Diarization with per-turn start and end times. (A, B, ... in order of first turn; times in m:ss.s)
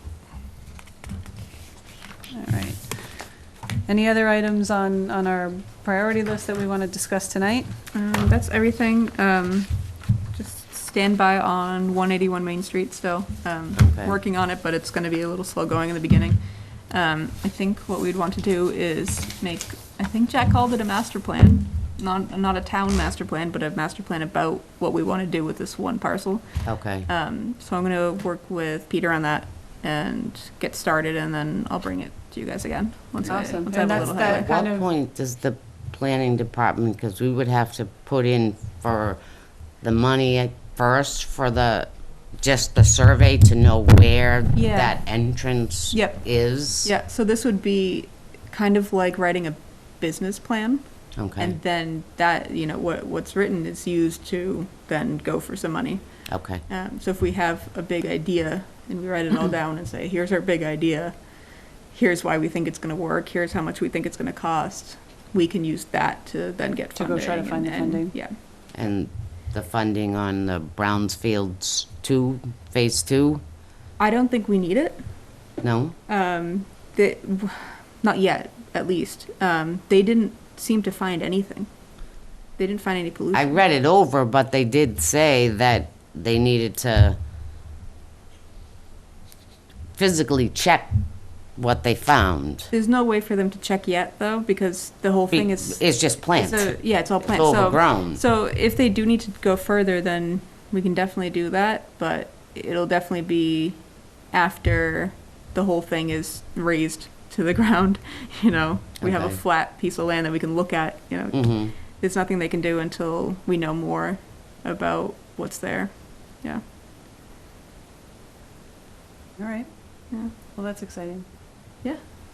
0:02.3-0:07.8 A
0:07.9-0:34.5 B
0:13.8-0:14.2 C
0:26.6-0:27.1 C
0:33.2-0:34.9 A
0:33.8-0:46.9 C
0:44.5-0:45.3 B
0:45.9-1:08.4 B
0:51.2-0:51.6 C
0:56.3-0:56.6 C
1:07.0-1:08.2 A
1:08.7-1:13.4 C
1:14.0-1:23.7 B
1:15.6-1:16.0 C
1:23.3-1:27.2 C
1:29.9-1:32.7 C
1:32.7-1:56.6 B
1:35.3-1:38.2 C
1:49.0-1:49.4 C
1:51.3-1:51.8 C
1:59.4-2:01.3 A